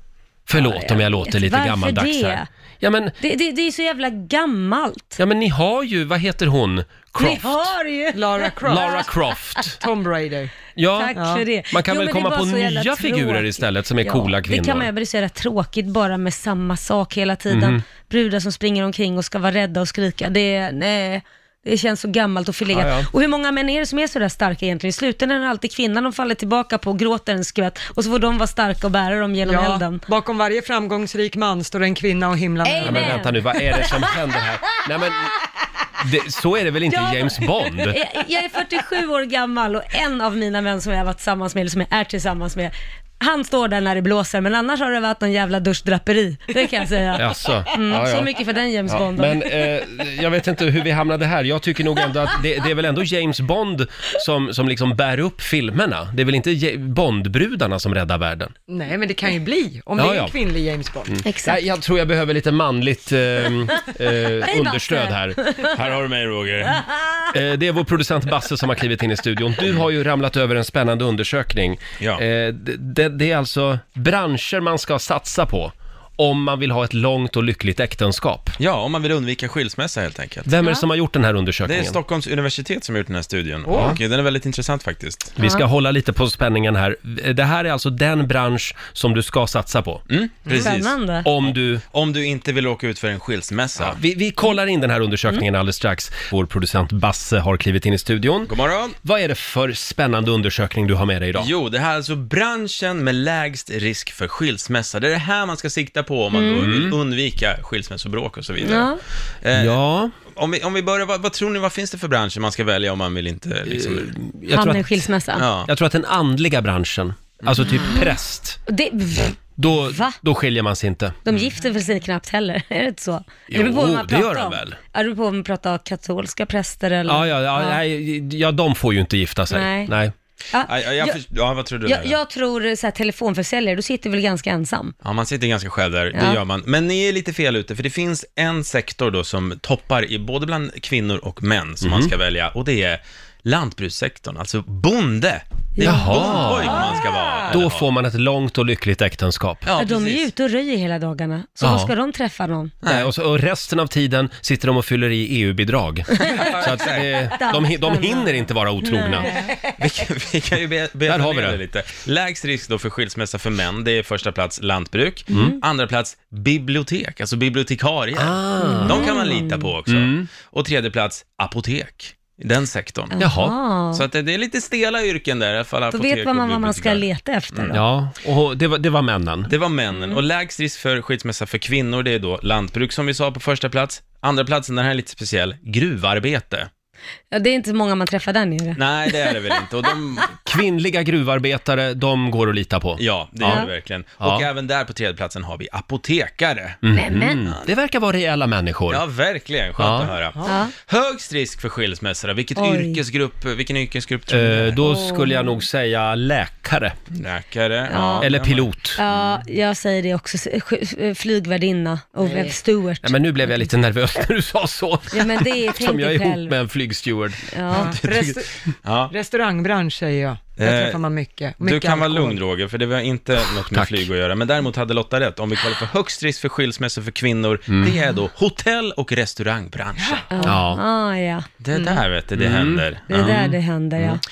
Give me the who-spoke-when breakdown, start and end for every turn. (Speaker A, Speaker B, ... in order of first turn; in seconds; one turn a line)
Speaker A: 0.5-3.2
Speaker B: 0.5-2.5
Speaker B: 3.2-5.2
Speaker A: 5.2-7.7
Speaker B: 7.2-9.0
Speaker C: 8.1-9.1
Speaker A: 8.7-9.8
Speaker C: 9.8-10.5
Speaker A: 10.8-11.2
Speaker B: 11.0-30.0
Speaker C: 11.2-11.4
Speaker A: 11.7-14.9
Speaker A: 17.5-17.8
Speaker A: 22.7-23.1
Speaker C: 29.4-33.3
Speaker B: 32.6-34.0
Speaker A: 32.8-35.3
Speaker A: 36.0-38.0
Speaker B: 36.9-49.5
Speaker A: 47.2-48.3
Speaker A: 48.9-58.5
Speaker C: 58.7-61.2
Speaker A: 60.0-60.4
Speaker A: 61.1-65.4
Speaker B: 61.2-61.6
Speaker B: 64.4-65.7
Speaker D: 65.6-66.8
Speaker A: 67.3-78.6
Speaker D: 78.6-80.5
Speaker A: 80.5-82.0
Speaker D: 81.7-85.3
Speaker C: 83.7-84.0
Speaker A: 83.7-84.0
Speaker A: 85.4-90.0
Speaker B: 85.4-85.7
Speaker D: 90.1-90.9
Speaker C: 90.5-90.7
Speaker B: 90.6-91.3
Speaker A: 91.2-91.8
Speaker D: 91.8-94.0
Speaker A: 93.8-98.5
Speaker D: 98.5-99.0
Speaker A: 99.0-101.5
Speaker D: 101.4-108.9
Speaker B: 106.3-106.7
Speaker A: 106.6-107.0
Speaker B: 108.6-109.0
Speaker D: 109.4-109.8
Speaker A: 109.5-110.1
Speaker D: 110.3-114.1
Speaker A: 113.7-115.1
Speaker B: 114.5-115.5
Speaker D: 115.4-115.7
Speaker A: 115.7-118.6
Speaker D: 117.5-117.9
Speaker B: 118.7-119.4
Speaker A: 119.6-121.2
Speaker B: 119.9-120.2
Speaker B: 121.3-127.8
Speaker A: 123.5-124.8
Speaker A: 127.1-130.1
Speaker B: 129.5-129.9
Speaker B: 130.5-131.2
Speaker D: 130.7-132.2
Speaker B: 131.8-134.9
Speaker D: 135.0-147.9
Speaker B: 136.1-136.4
Speaker A: 141.8-142.1
Speaker B: 145.8-146.9
Speaker A: 145.8-146.8
Speaker C: 146.9-147.5
Speaker A: 147.5-149.7
Speaker D: 149.7-150.3
Speaker B: 149.8-152.8
Speaker A: 151.6-151.9
Speaker D: 152.8-153.1
Speaker A: 152.8-159.3
Speaker B: 156.2-156.5
Speaker D: 156.3-157.3
Speaker B: 157.3-159.5
Speaker D: 159.8-173.2
Speaker A: 161.1-161.6
Speaker B: 165.3-165.6
Speaker A: 165.3-165.6
Speaker A: 168.2-169.2
Speaker B: 168.6-169.7
Speaker A: 169.9-170.3
Speaker B: 173.1-174.1
Speaker A: 173.2-173.6
Speaker D: 173.9-177.8
Speaker B: 175.9-177.8
Speaker A: 177.7-179.5
Speaker D: 179.5-186.7
Speaker B: 179.9-180.2
Speaker B: 187.3-189.4
Speaker D: 188.8-190.4
Speaker A: 190.5-193.7
Speaker D: 193.0-196.8
Speaker B: 193.4-193.7
Speaker A: 194.2-194.5
Speaker A: 196.8-199.0
Speaker B: 196.9-197.4
Speaker D: 198.9-204.8
Speaker A: 199.8-200.1
Speaker B: 200.5-200.7
Speaker B: 202.6-203.0
Speaker A: 204.3-207.0
Speaker B: 204.9-205.4
Speaker D: 207.1-209.4
Speaker B: 207.9-208.3
Speaker A: 208.2-209.0
Speaker B: 209.0-213.6
Speaker C: 212.2-212.6
Speaker A: 213.0-218.4
Speaker B: 215.1-216.6
Speaker B: 217.5-217.9
Speaker C: 217.7-218.5
Speaker D: 218.8-219.1
Speaker C: 219.1-222.4
Speaker D: 220.6-221.0
Speaker D: 221.6-230.3
Speaker A: 223.7-224.1
Speaker A: 227.7-228.0
Speaker C: 230.0-230.5
Speaker B: 230.3-231.5
Speaker A: 230.4-230.8
Speaker D: 231.6-233.4
Speaker A: 232.4-233.6
Speaker B: 233.1-234.2